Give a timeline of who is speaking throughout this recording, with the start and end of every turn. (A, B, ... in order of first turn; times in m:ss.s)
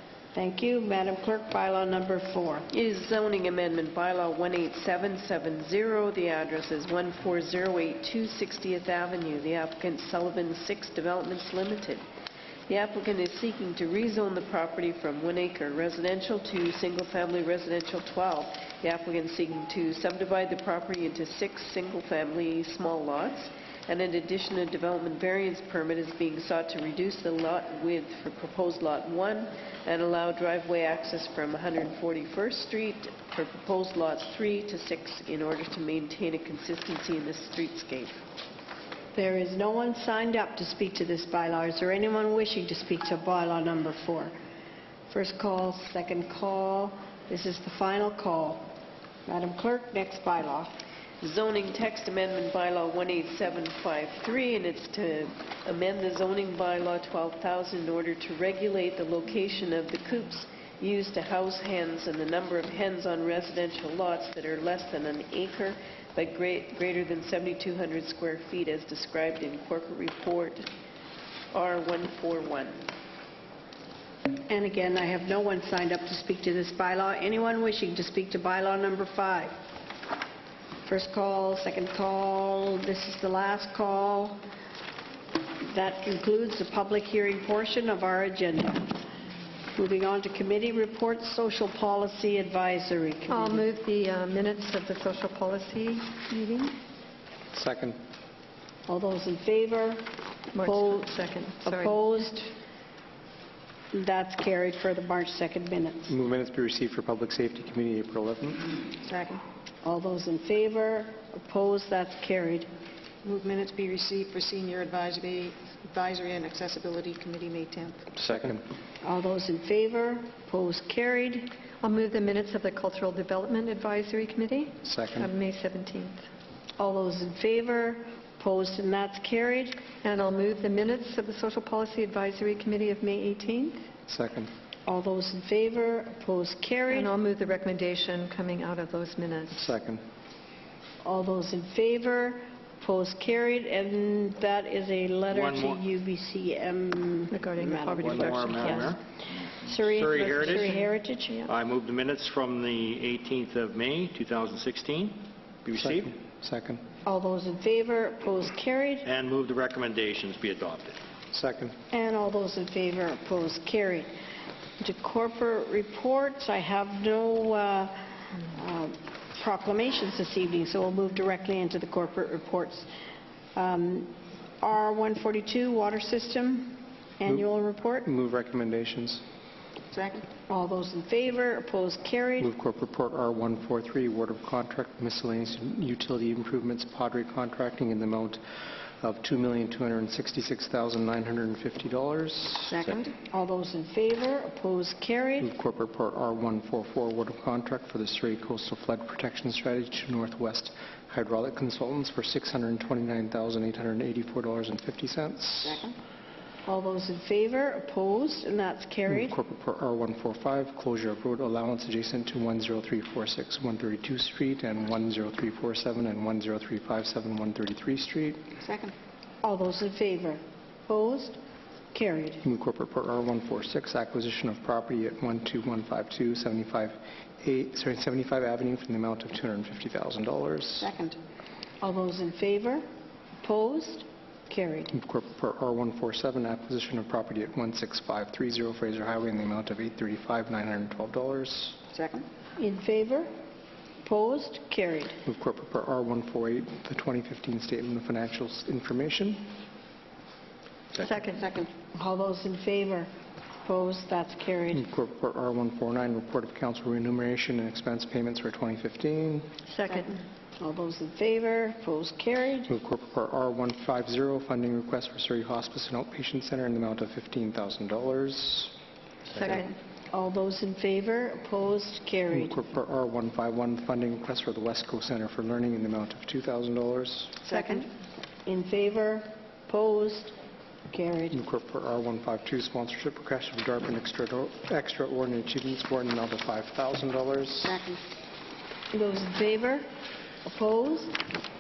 0:00.4-0:02.7 A
0:02.7-0:12.0 B
0:12.7-0:38.2 B
0:39.1-0:44.4 A
0:45.1-0:48.7 A
0:49.3-0:50.8 A
0:51.2-1:10.7 B
1:11.5-1:12.9 B
1:14.4-1:19.6 A
1:20.9-1:24.4 A
1:25.6-1:29.0 A
1:29.8-1:33.7 A
1:33.3-1:36.8 C
1:37.5-1:38.0 D
1:38.9-1:42.5 A
1:40.5-1:42.0 C
1:43.9-1:46.1 A
1:46.1-1:48.8 D
1:49.0-1:49.4 E
1:49.8-1:52.7 A
1:53.2-1:58.1 E
1:58.2-1:58.6 D
1:59.0-2:01.5 A
2:01.8-2:06.2 C
2:04.8-2:05.3 D
2:06.8-2:09.8 A
2:10.0-2:13.8 C
2:14.1-2:14.5 D
2:14.9-2:17.1 A
2:16.9-2:19.7 C
2:19.5-2:20.0 D
2:21.0-2:28.9 A
2:25.3-2:25.8 F
2:27.3-2:29.0 C
2:28.0-2:29.0 F
2:29.5-2:31.4 A
2:29.7-2:30.7 F
2:30.2-2:31.5 C
2:31.5-2:36.1 F
2:35.8-2:36.8 D
2:37.0-2:39.1 A
2:39.0-2:41.0 F
2:41.3-2:41.8 D
2:41.9-2:44.1 A
2:44.8-2:52.9 A
2:53.6-2:58.1 A
2:58.0-2:59.2 D
2:59.9-3:00.3 E
3:00.5-3:02.5 A
3:02.4-3:08.4 D
3:09.0-3:12.8 D
3:12.7-3:13.0 E
3:13.0-3:15.5 A
3:15.4-3:25.8 D
3:26.6-3:29.4 A
3:29.1-3:38.4 D
3:38.6-3:38.9 E
3:39.4-3:41.4 A
3:41.9-3:42.4 A
3:42.4-3:50.9 D
3:50.8-3:51.2 E
3:51.8-3:52.8 A
3:53.4-3:54.9 A
3:54.9-4:01.8 D
4:01.9-4:02.3 E
4:02.6-4:03.3 A
4:04.0-4:05.2 A
4:05.2-4:09.5 D
4:11.0-4:11.7 E
4:11.0-4:11.4 C
4:11.9-4:13.1 A
4:13.6-4:14.9 A
4:14.7-4:19.5 D
4:19.7-4:20.2 C
4:20.6-4:22.7 A
4:22.7-4:28.7 D
4:29.4-4:29.7 C
4:30.1-4:32.7 A
4:32.3-4:37.4 D
4:37.5-4:37.9 A
4:37.5-4:37.8 E
4:38.4-4:40.4 A
4:40.9-4:41.4 A
4:41.3-4:47.8 D
4:48.9-4:49.9 A
4:50.4-4:51.2 A